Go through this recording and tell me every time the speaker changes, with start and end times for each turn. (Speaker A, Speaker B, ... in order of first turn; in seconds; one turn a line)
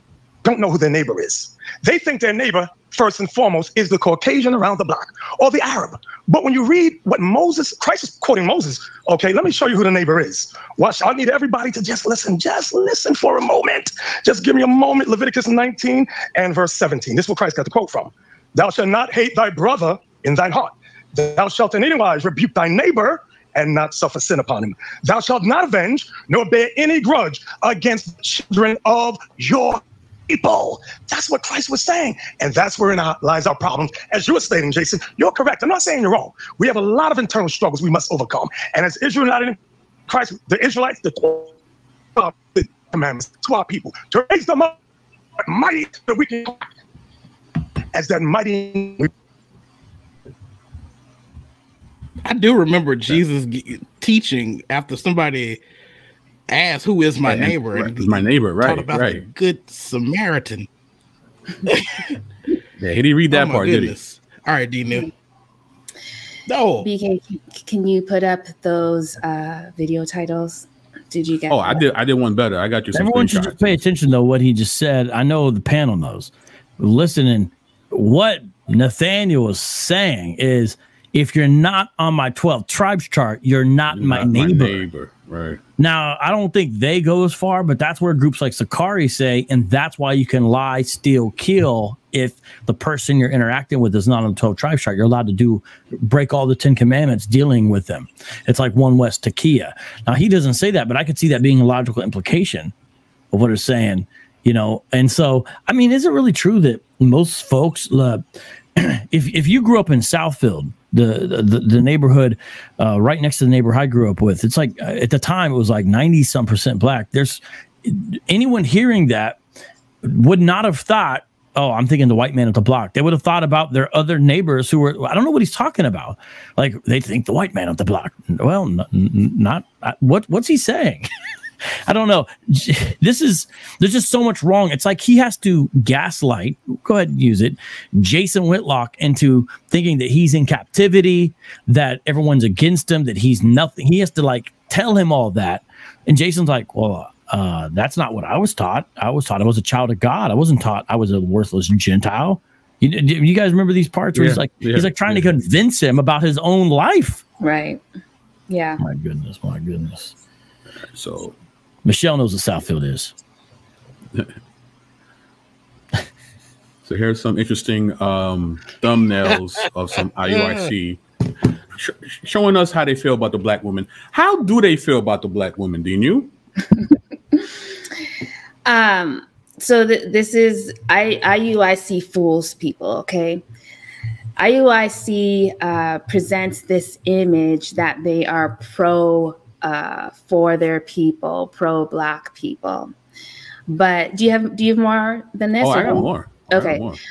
Speaker A: 0.4-41.5
Speaker A: 42.1-44.7
Speaker A: 45.5-46.6
Speaker A: 47.9-49.1
Speaker B: 52.2-55.6
Speaker B: 56.5-60.7
Speaker C: 57.2-59.2
Speaker B: 61.7-62.1
Speaker C: 62.8-64.0
Speaker B: 63.3-65.1
Speaker B: 66.5-66.9
Speaker D: 66.8-71.8
Speaker C: 71.5-73.8
Speaker E: 72.9-84.8
Speaker C: 83.9-85.6
Speaker E: 85.8-102.7
Speaker E: 103.3-108.2
Speaker E: 108.8-119.4
Speaker E: 120.0-131.1
Speaker E: 131.8-157.2
Speaker C: 154.1-155.4
Speaker D: 157.4-157.8
Speaker D: 158.5-158.8
Speaker E: 158.8-160.1
Speaker C: 160.8-161.3
Speaker E: 161.8-163.1
Speaker C: 166.8-171.0
Speaker B: 170.3-170.7
Speaker C: 171.7-176.3
Speaker D: 178.6-183.4
Speaker D: 184.4-192.9
Speaker D: 193.7-196.8
Speaker C: 195.6-197.0